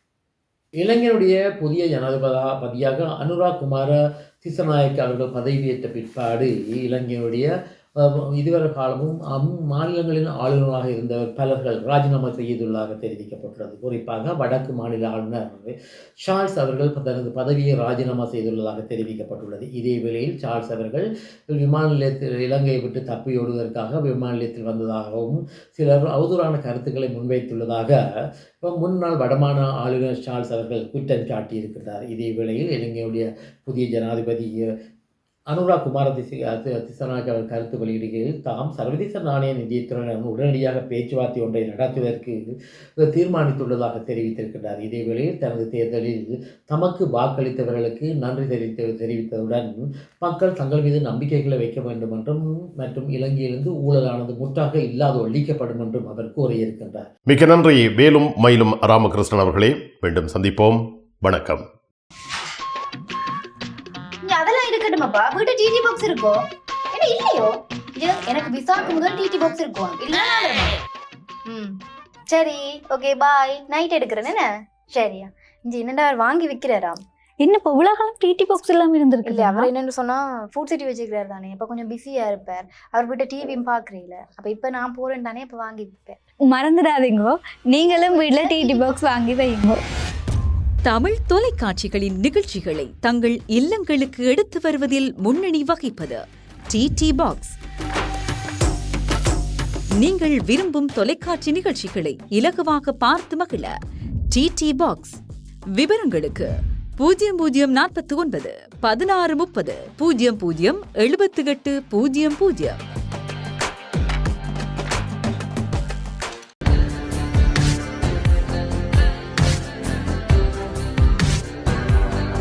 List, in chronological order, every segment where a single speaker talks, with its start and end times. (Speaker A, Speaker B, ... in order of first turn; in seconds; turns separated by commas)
Speaker A: 0.8-34.7, Speaker A: 35.5-57.1, Speaker B: 57.3-61.6, Speaker C: 64.2-70.8, Speaker C: 71.5-77.0, Speaker D: 77.4-79.7, Speaker C: 79.2-86.2, Speaker D: 86.5-89.8, Speaker C: 88.0-88.9, Speaker E: 90.8-97.6, Speaker E: 100.0-103.7, Speaker E: 104.3-105.2, Speaker E: 105.8-112.8